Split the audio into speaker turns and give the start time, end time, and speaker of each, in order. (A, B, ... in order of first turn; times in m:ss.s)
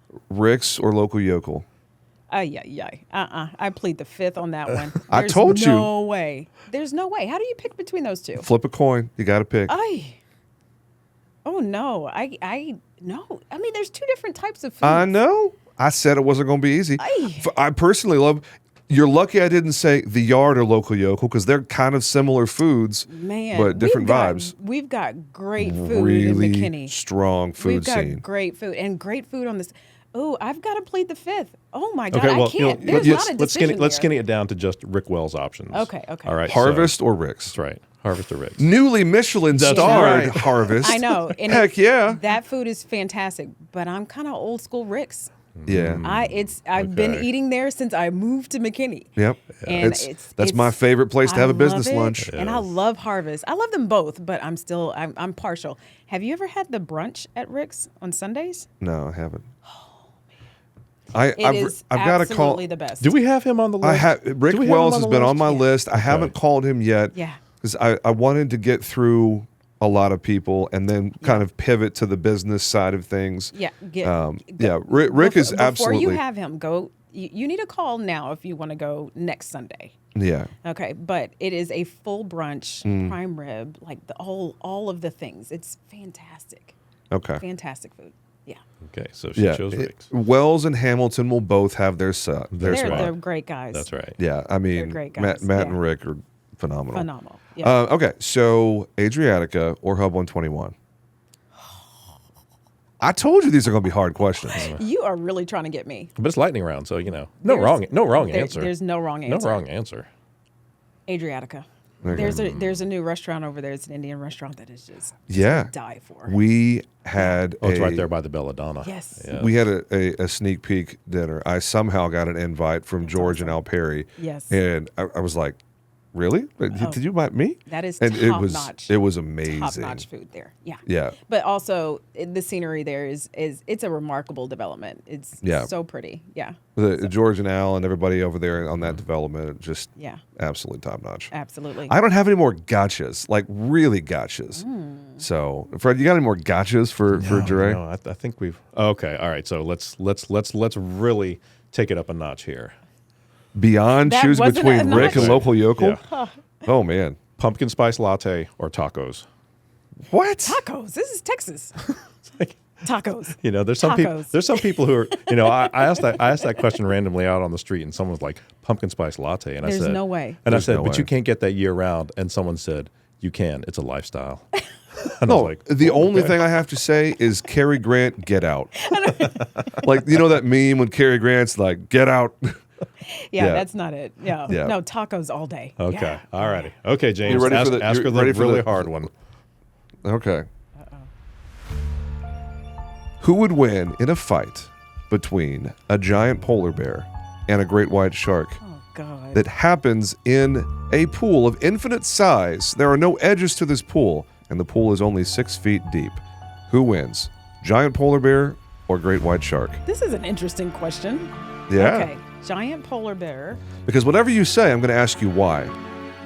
0:00.3-0:01.7 A
0:02.3-0:08.5 B
0:05.1-0:05.9 A
0:08.4-0:09.8 A
0:09.7-0:10.2 B
0:11.4-0:15.2 B
0:14.8-0:24.5 A
0:17.0-0:17.5 B
0:23.1-0:27.0 B
0:25.6-0:28.2 A
0:27.6-0:34.1 B
0:32.1-0:37.0 C
0:32.8-0:33.3 A
0:35.7-0:36.4 B
0:36.5-0:37.6 A
0:37.5-0:38.7 C
0:38.6-0:42.2 A
0:39.5-0:41.2 C
0:39.7-0:45.3 B
0:45.6-0:47.3 C
0:45.7-0:46.1 A
0:46.0-0:58.7 B
0:49.2-0:52.4 A
0:49.6-0:49.9 C
0:52.2-0:52.7 C
0:58.8-0:59.5 A
0:59.7-0:59.9 B
1:01.1-1:02.6 A
1:01.4-1:03.2 B
1:03.0-1:06.3 C
1:03.8-1:16.2 A
1:05.3-1:05.7 B
1:07.1-1:07.4 B
1:13.5-1:20.0 B
1:20.2-1:20.5 A
1:20.6-1:26.8 B
1:22.8-1:23.2 A
1:27.1-1:27.4 A
1:27.4-1:28.6 B
1:28.8-1:30.1 C
1:29.4-1:33.1 A
1:32.5-1:33.2 C
1:32.7-1:33.9 B
1:33.7-1:34.2 C
1:34.2-1:37.1 A
1:34.7-1:35.8 B
1:36.9-1:37.8 B
1:37.6-1:40.8 A
1:43.0-1:44.7 A
1:44.4-1:46.1 B
1:44.5-1:44.8 C
1:46.2-1:48.7 C
1:47.4-1:49.6 B
1:49.3-1:50.1 C
1:51.1-1:56.4 B
1:52.0-1:52.4 A
1:52.1-1:52.8 C
1:55.3-1:55.7 A
1:56.2-1:58.1 A
1:57.2-1:57.4 B
1:57.6-1:59.7 C
1:58.8-1:59.3 B
1:59.3-2:05.6 A
2:03.0-2:03.6 B
2:04.2-2:04.6 B
2:06.1-2:10.1 A
2:06.7-2:07.0 B
2:07.7-2:17.1 B
2:10.9-2:11.2 A
2:15.4-2:15.7 A
2:16.8-2:21.3 A
2:20.0-2:20.2 B
2:21.3-2:22.0 B
2:21.9-2:24.6 A
2:24.6-2:25.3 B
2:25.2-2:27.8 A
2:27.1-2:32.8 C
2:33.6-2:36.0 A
2:34.0-2:36.3 B
2:34.8-2:36.0 C
2:36.6-2:37.2 A
2:37.4-2:39.3 C
2:40.1-2:40.6 A
2:40.4-2:42.0 B
2:42.8-2:46.2 B
2:43.4-2:54.4 C
2:49.6-2:50.4 B
2:50.5-2:51.1 A
2:55.0-2:56.4 C
2:55.3-3:02.6 A
2:58.8-2:59.7 B
3:03.0-3:06.7 B
3:03.4-3:03.7 A
3:04.5-3:04.8 A
3:05.8-3:09.1 C
3:07.2-3:09.1 A
3:07.3-3:07.7 B
3:10.0-3:10.5 A
3:10.8-3:11.1 B
3:13.2-3:18.6 A
3:18.6-3:19.5 B
3:19.3-3:29.8 A
3:29.8-3:33.6 B
3:31.7-3:32.1 A
3:33.8-3:35.8 A